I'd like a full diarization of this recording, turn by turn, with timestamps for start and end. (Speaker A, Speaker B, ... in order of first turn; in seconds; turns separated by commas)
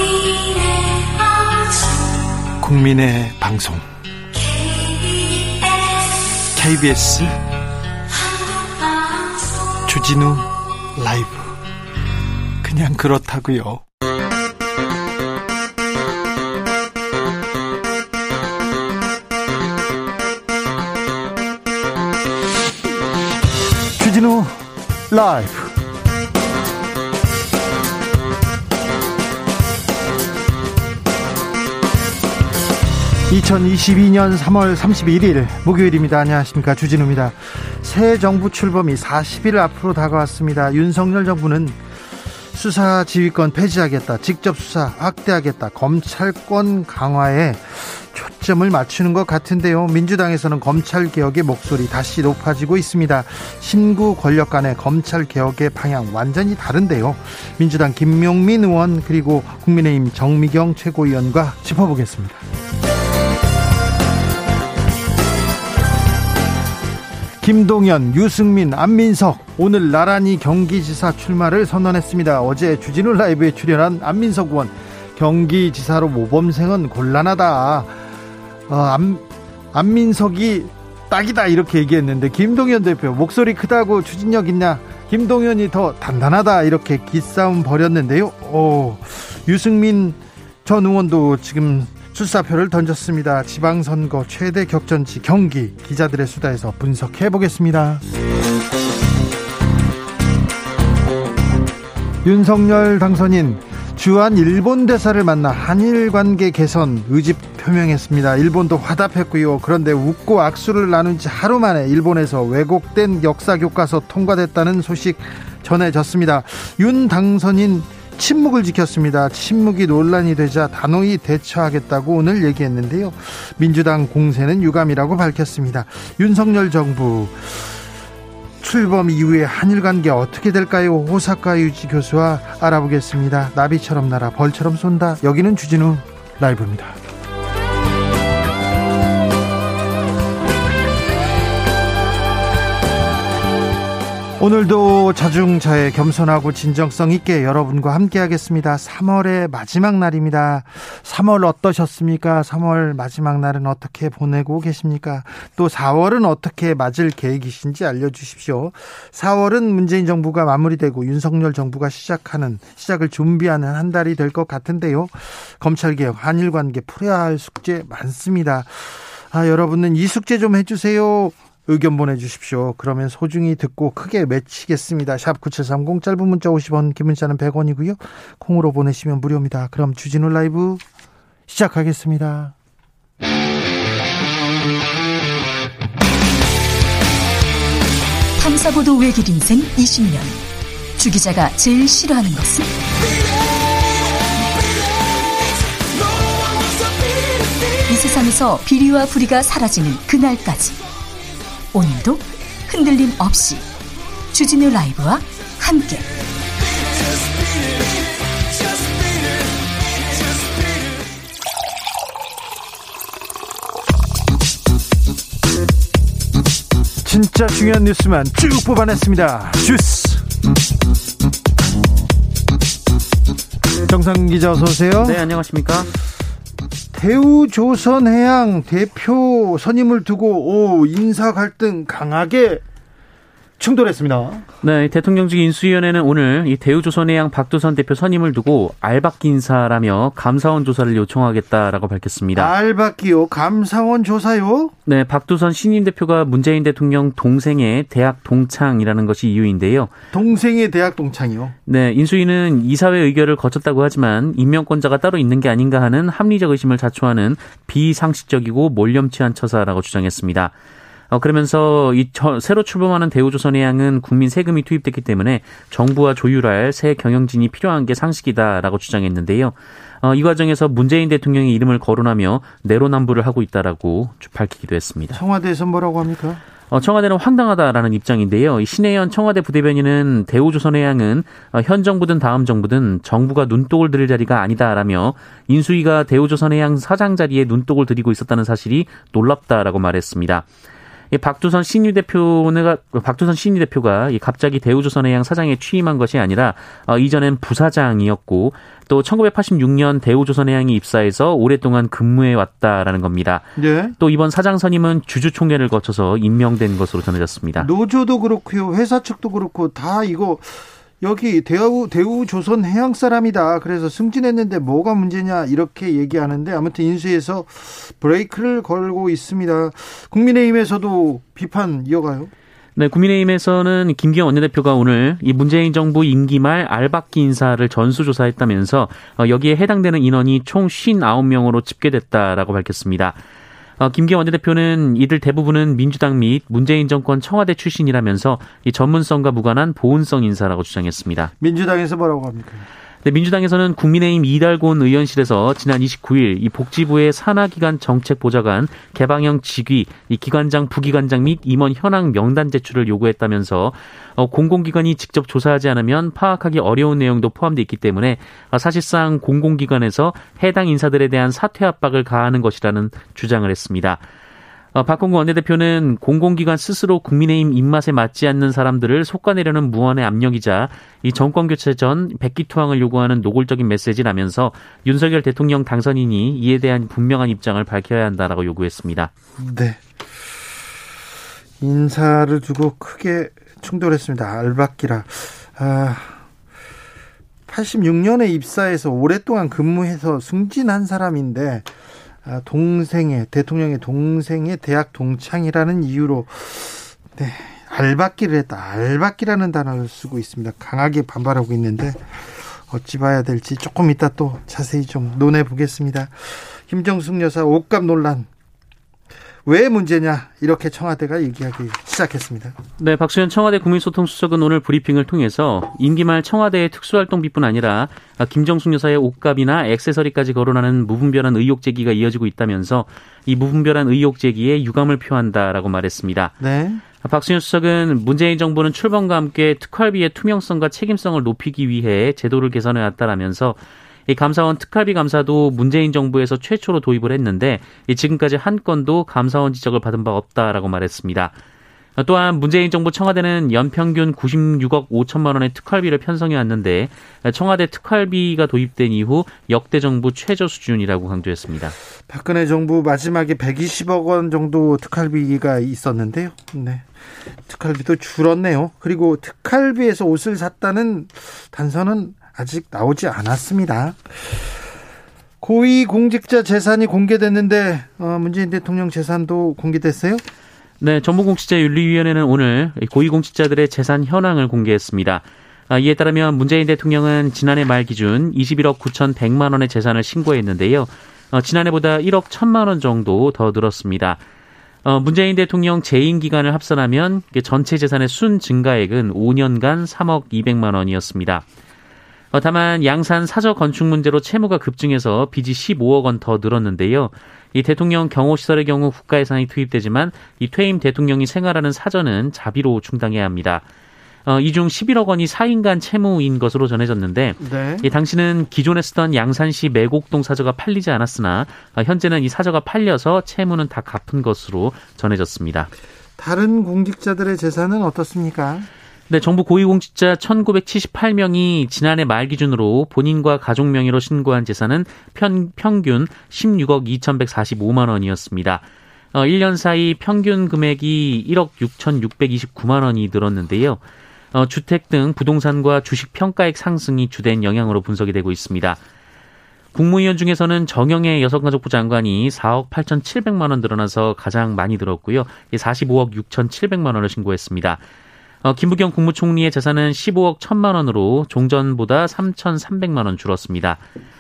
Speaker A: 2.6-3.9, Speaker A: 6.5-7.4, Speaker A: 9.8-11.6, Speaker A: 12.6-13.8, Speaker A: 24.0-25.7, Speaker A: 33.3-41.8, Speaker A: 42.5-62.4, Speaker A: 67.4-77.9, Speaker A: 78.7-98.0, Speaker A: 102.2-127.8, Speaker A: 128.6-137.0, Speaker A: 144.4-180.8, Speaker A: 181.5-182.6, Speaker B: 188.4-190.4, Speaker B: 191.0-192.7, Speaker B: 197.7-200.8, Speaker B: 201.7-203.6, Speaker B: 204.3-206.1, Speaker A: 217.0-220.2, Speaker A: 223.8-225.3, Speaker C: 225.0-225.9, Speaker A: 226.9-232.6, Speaker A: 233.6-234.5, Speaker C: 234.6-242.5, Speaker A: 242.3-244.7, Speaker C: 244.9-249.9, Speaker A: 250.1-251.5, Speaker C: 251.7-260.5, Speaker C: 261.1-275.2, Speaker A: 275.1-276.4, Speaker C: 276.7-290.5, Speaker C: 291.1-307.7, Speaker A: 303.6-304.0, Speaker A: 307.6-322.3, Speaker C: 322.8-333.2, Speaker C: 333.8-341.3, Speaker A: 341.4-342.7, Speaker C: 343.0-364.0, Speaker C: 364.7-379.1, Speaker A: 379.4-379.8, Speaker A: 381.6-386.2, Speaker A: 387.5-391.7, Speaker A: 392.2-408.3, Speaker A: 409.4-412.6, Speaker C: 412.8-426.4, Speaker A: 426.4-426.8, Speaker C: 427.0-441.4, Speaker C: 442.0-451.8, Speaker A: 452.1-456.9, Speaker A: 457.5-464.4, Speaker A: 465.4-470.2, Speaker C: 470.8-484.2, Speaker C: 484.9-491.4, Speaker C: 492.3-503.6, Speaker C: 504.2-515.7, Speaker A: 507.4-507.9, Speaker A: 516.2-518.7, Speaker C: 519.1-533.8, Speaker C: 534.3-538.8, Speaker C: 539.7-547.8, Speaker C: 548.4-553.8